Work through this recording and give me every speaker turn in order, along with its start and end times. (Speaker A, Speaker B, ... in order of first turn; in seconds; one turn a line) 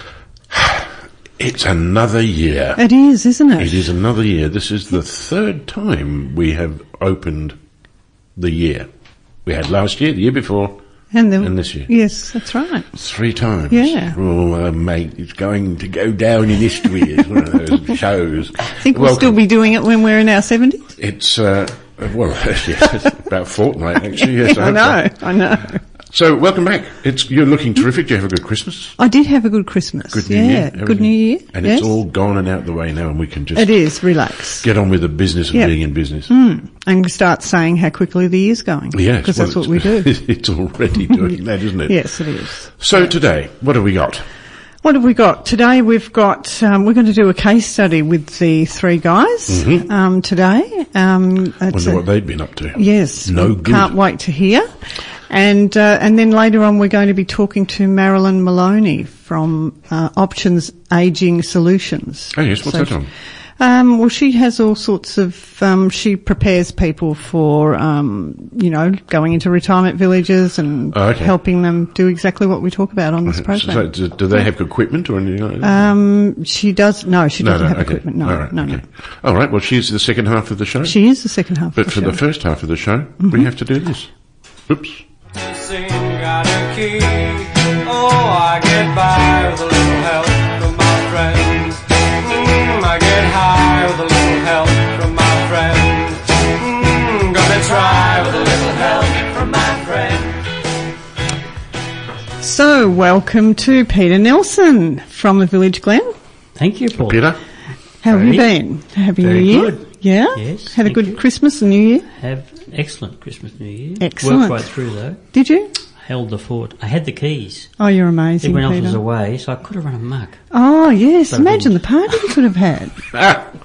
Speaker A: 0.5-2.8
Speaker B: 2.8-3.9
Speaker A: 3.6-7.6
Speaker A: 8.3-8.9
Speaker A: 9.4-10.8
Speaker B: 11.1-12.8
Speaker A: 11.4-11.9
Speaker A: 12.9-19.4
Speaker B: 13.7-14.2
Speaker B: 18.7-20.9
Speaker A: 21.0-28.9
Speaker B: 24.2-25.8
Speaker B: 29.0-31.9
Speaker A: 30.1-36.3
Speaker B: 33.5-34.7
Speaker B: 36.3-40.1
Speaker A: 38.9-44.2
Speaker B: 41.9-43.1
Speaker B: 44.8-52.0
Speaker A: 49.5-49.9
Speaker A: 51.7-53.9
Speaker B: 52.7-54.7
Speaker B: 55.3-63.0
Speaker A: 62.3-63.1
Speaker B: 63.6-74.5
Speaker A: 70.9-71.3
Speaker A: 73.3-75.9
Speaker B: 75.6-78.8
Speaker A: 77.4-81.1
Speaker B: 80.8-82.2
Speaker A: 81.7-84.1
Speaker B: 83.2-83.5
Speaker A: 84.7-85.0
Speaker C: 85.3-100.5
Speaker B: 102.4-106.1
Speaker D: 106.5-107.4
Speaker A: 107.0-107.4
Speaker B: 108.0-112.1
Speaker D: 108.0-108.5
Speaker D: 109.2-109.8
Speaker D: 110.3-111.2
Speaker D: 112.1-115.2
Speaker B: 114.0-114.7
Speaker B: 115.3-115.7
Speaker D: 116.0-117.7
Speaker B: 117.8-119.0
Speaker D: 118.4-120.4
Speaker B: 120.5-123.0
Speaker D: 121.3-121.7
Speaker A: 123.1-123.5